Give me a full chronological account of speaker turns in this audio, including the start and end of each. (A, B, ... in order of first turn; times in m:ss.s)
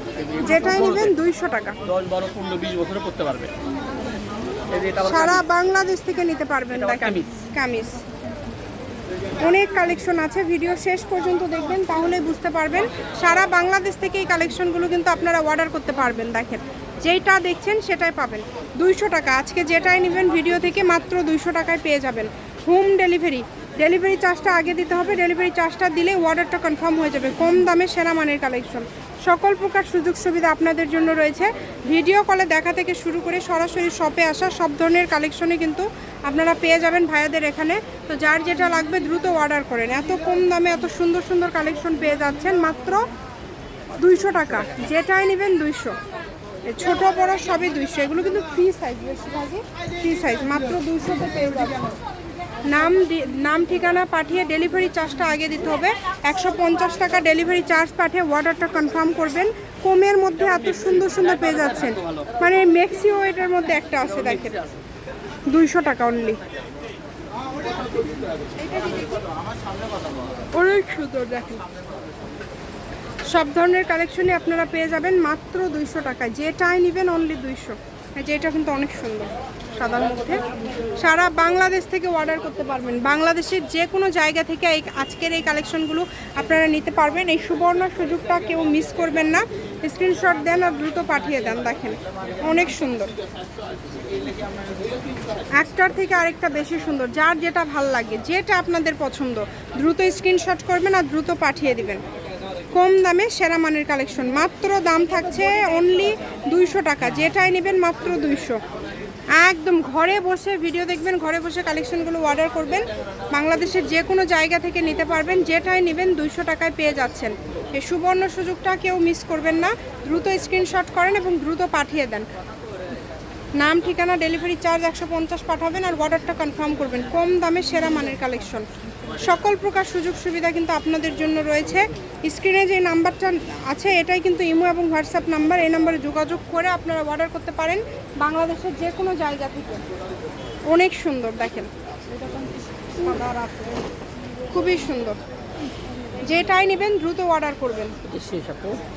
0:00.2-0:01.2 A
0:00.4-0:01.8 B
0:01.8-0:03.5 A
0:04.7-0:05.4 A
0:05.0-0:08.0 B
0:06.7-0:07.3 A
0:09.4-0:43.1 B
0:44.0-0:46.0 B
0:46.7-0:52.0 B
0:52.6-1:04.6 B
1:00.6-1:02.4 A
1:04.0-1:04.8 A
1:05.5-1:06.4 B
1:08.6-1:09.2 B
1:10.5-1:11.6 B
1:13.3-1:20.4 B
1:21.0-1:33.1 B
1:35.6-1:42.0 B
1:42.8-1:48.6 B
1:49.4-2:02.3 B
2:03.6-2:08.7 B
2:09.2-2:19.8 B
2:20.7-2:21.7 B
2:23.0-2:23.8 B
2:24.5-2:25.2 B
2:26.2-2:28.0 B
2:28.0-2:28.8 A